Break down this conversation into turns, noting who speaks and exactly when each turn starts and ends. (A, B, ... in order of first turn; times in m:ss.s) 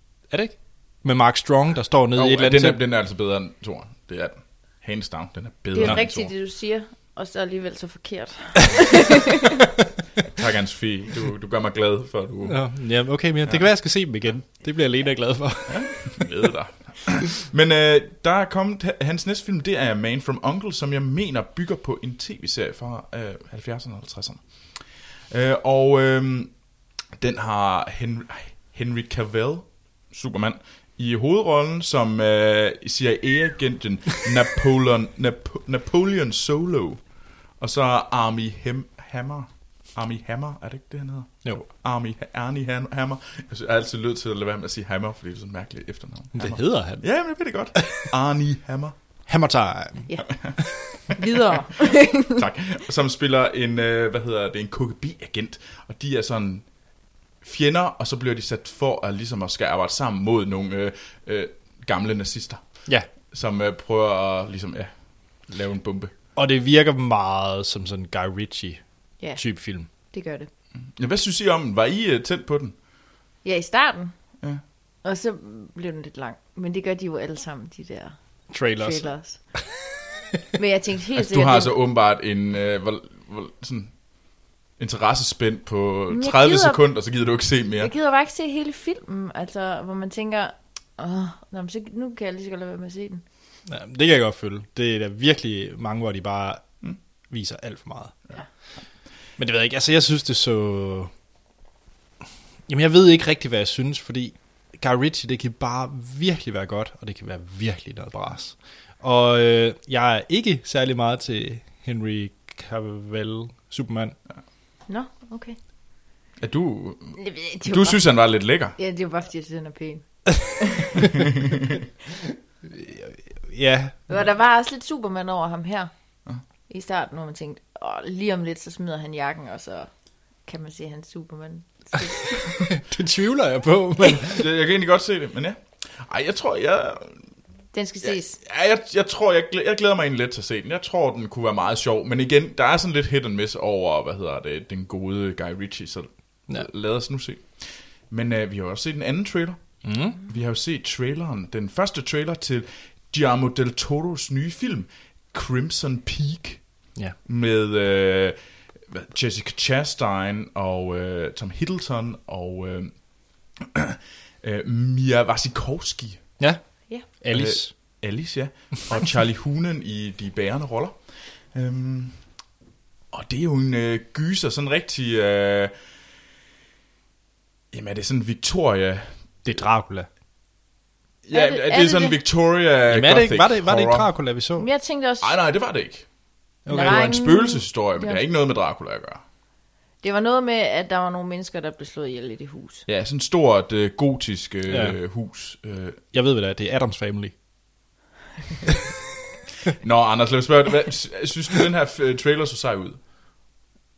0:00.3-0:02.8 A
0:02.1-0:06.3 B
0:05.7-0:09.4 C
0:05.8-0:06.0 A
0:10.4-0:13.7 B
0:12.4-0:16.2 A
0:15.7-0:26.5 B
0:27.2-0:37.0 B
0:37.6-0:49.0 B
0:46.3-0:47.2 A
0:47.7-0:48.1 A
0:49.3-0:50.1 A
0:50.3-0:50.6 B
0:51.0-0:52.4 C
0:52.1-0:56.7 B
0:57.4-1:06.1 B
1:06.4-1:08.8 A
1:09.2-1:10.5 C
1:09.3-1:09.9 A
1:10.9-1:12.8 B
1:13.4-1:14.1 C
1:15.0-1:19.4 C
1:18.5-1:19.1 A
1:20.5-1:21.8 C
1:21.2-1:23.9 B
1:24.8-1:27.9 B
1:26.1-1:26.8 C
1:27.8-1:33.2 C
1:33.6-1:38.2 A
1:39.4-1:41.1 A
1:42.7-1:54.1 A
1:54.9-1:55.6 C
1:56.4-1:58.8 B
1:57.2-1:58.1 C
1:58.8-2:01.1 C
2:02.6-2:04.2 A
2:04.1-2:05.9 C
2:06.7-2:09.9 C
2:10.4-2:12.4 C
2:12.6-2:14.4 A
2:14.3-2:17.2 B
2:17.7-2:18.4 C
2:18.0-2:38.4 B
2:29.8-2:30.2 A
2:38.9-2:46.3 B
2:46.4-2:47.7 A
2:47.3-2:52.3 B
2:53.1-2:55.7 B
2:57.7-2:59.1 B
2:59.4-3:00.1 A
3:01.2-3:04.1 B
3:01.3-3:02.2 C
3:02.9-3:04.7 A
3:04.6-3:05.3 C
3:05.2-3:06.1 B
3:06.6-3:07.2 A
3:06.6-3:09.2 B
3:06.7-3:08.2 C
3:10.0-3:12.8 C
3:12.9-3:16.0 B
3:14.7-3:15.0 A
3:16.1-3:17.3 A
3:19.8-3:23.0 B